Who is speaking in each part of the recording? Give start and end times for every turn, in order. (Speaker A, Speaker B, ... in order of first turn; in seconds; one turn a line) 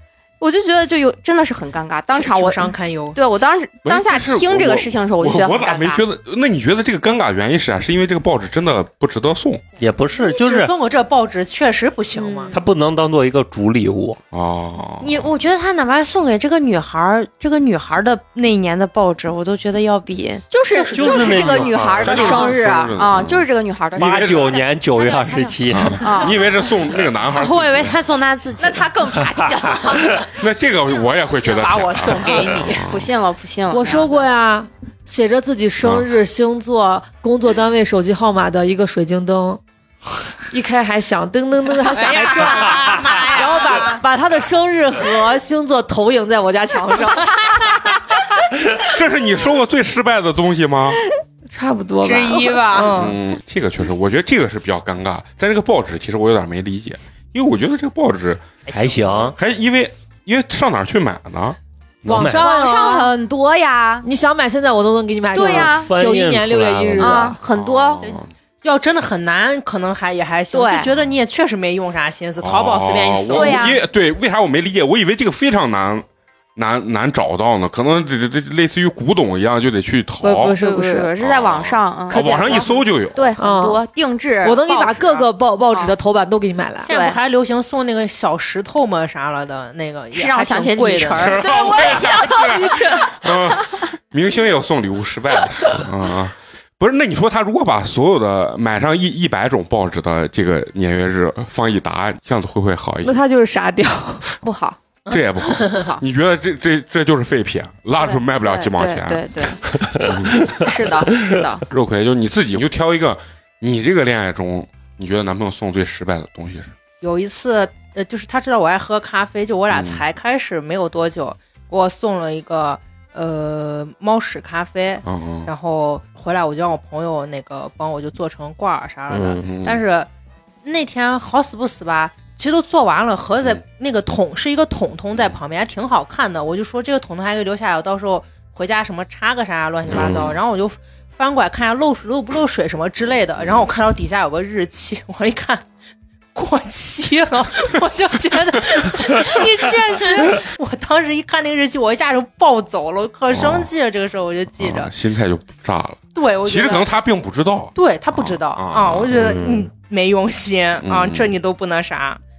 Speaker A: 0.4-6.0
Speaker B: 2.1-3.2
Speaker C: 3.8-9.6
Speaker D: 9.8-10.7
Speaker B: 10.1-12.6
Speaker E: 12.2-12.5
Speaker D: 12.5-14.2
Speaker C: 14.3-15.3
Speaker E: 15.0-20.4
Speaker A: 20.5-24.6
Speaker B: 20.7-21.7
Speaker D: 20.9-22.5
Speaker C: 21.8-23.4
Speaker D: 23.9-26.1
Speaker C: 24.0-24.6
Speaker E: 24.5-26.3
Speaker C: 25.7-27.9
Speaker A: 26.0-26.4
Speaker E: 27.3-28.9
Speaker A: 28.6-30.2
Speaker C: 30.3-33.1
Speaker B: 31.4-32.9
Speaker A: 32.2-34.1
Speaker F: 33.7-39.6
Speaker C: 35.8-36.0
Speaker F: 40.5-47.5
Speaker B: 41.9-44.0
Speaker C: 48.8-51.0
Speaker F: 51.5-53.1
Speaker B: 52.0-53.1
Speaker C: 52.8-58.5
Speaker D: 58.7-59.4
Speaker B: 58.7-59.2
Speaker C: 59.3-61.6
Speaker F: 62.0-63.1
Speaker D: 62.1-62.5
Speaker A: 62.4-64.0
Speaker F: 64.0-67.4
Speaker D: 65.3-67.3
Speaker A: 65.3-65.9
Speaker A: 67.0-68.1
Speaker C: 67.5-68.3
Speaker B: 68.0-73.8
Speaker A: 70.5-70.9
Speaker C: 72.4-76.0
Speaker A: 73.3-73.8
Speaker C: 76.5-80.5
Speaker F: 80.2-81.1
Speaker A: 80.6-85.9
Speaker C: 81.2-83.3
Speaker F: 82.1-82.6
Speaker F: 83.4-83.8
Speaker F: 84.4-86.9
Speaker B: 86.8-93.2
Speaker A: 86.9-87.2
Speaker A: 90.1-91.5
Speaker C: 91.1-103.2
Speaker F: 103.0-104.2
Speaker A: 104.4-104.8
Speaker B: 105.1-105.9
Speaker C: 105.1-110.6
Speaker A: 108.0-111.6
Speaker C: 111.7-116.7
Speaker B: 117.0-130.1
Speaker C: 119.7-120.0
Speaker C: 125.0-125.5
Speaker D: 129.1-129.4
Speaker C: 129.4-129.8
Speaker B: 130.6-145.6
Speaker C: 139.9-140.3
Speaker D: 139.9-140.3
Speaker B: 146.3-154.9
Speaker C: 153.3-153.7
Speaker C: 154.6-159.4
Speaker B: 156.1-156.9
Speaker B: 157.7-162.2
Speaker D: 159.1-159.7
Speaker C: 160.8-161.4